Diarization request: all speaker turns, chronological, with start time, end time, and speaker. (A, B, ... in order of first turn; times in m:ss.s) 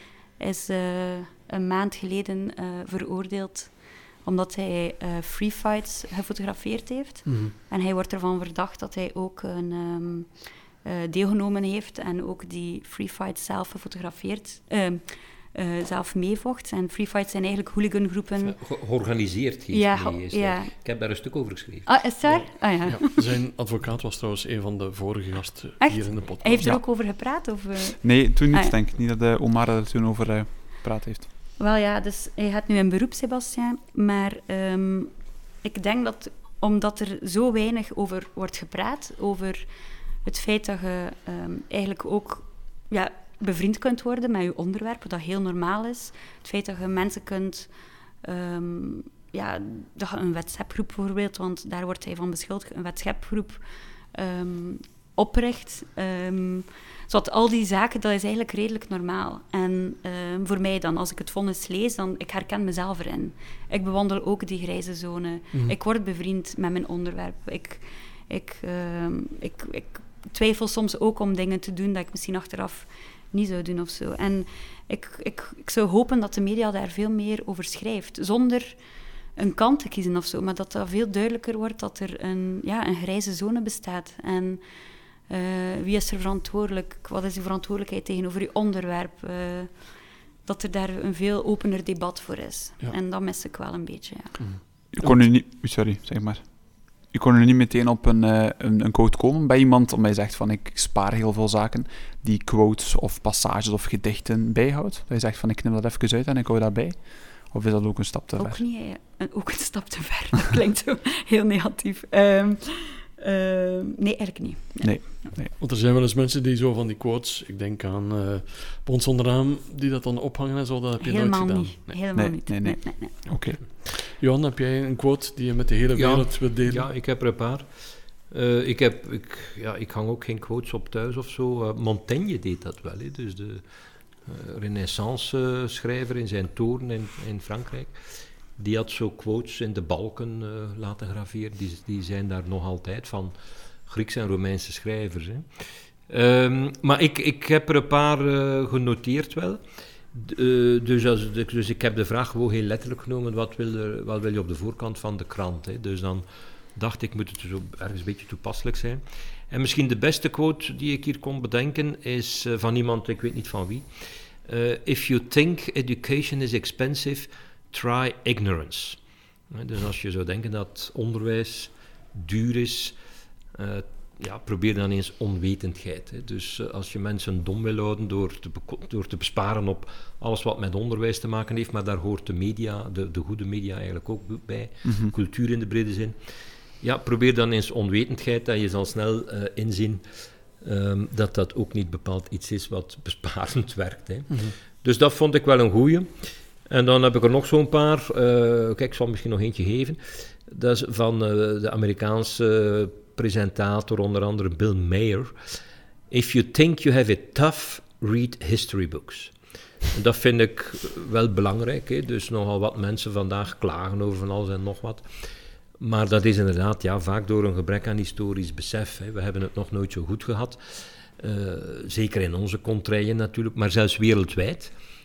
0:00.4-0:18.6 A
0:07.3-0:07.5 B
0:18.4-0:21.9 C
0:19.7-0:20.7 A
0:21.9-0:23.2 A
0:22.3-0:26.7 B
0:25.8-0:28.7 A
0:28.0-0:31.3 D
0:31.6-0:39.7 A
0:40.2-0:47.7 A
0:48.2-1:18.8 A
1:19.4-1:24.7 A
1:25.2-1:34.4 A
1:34.4-1:35.3 B
1:34.9-1:48.6 D
1:48.4-1:55.3 A
1:54.8-1:55.5 D
1:55.6-2:02.0 B
2:01.0-2:03.2 A
2:02.1-2:03.6 D
2:03.6-2:06.9 B
2:06.0-2:13.6 C
2:14.3-2:18.0 C
2:18.6-2:23.3 C
2:23.9-2:29.6 C
2:30.1-2:49.0 C
2:49.5-2:53.0 C
2:53.6-3:06.2 C
3:04.8-3:05.1 D
3:06.8-3:10.0 C
3:10.6-3:16.1 C
3:16.7-3:25.3 C
3:26.1-3:29.3 C
3:29.9-3:35.1 C
3:35.8-3:44.7 C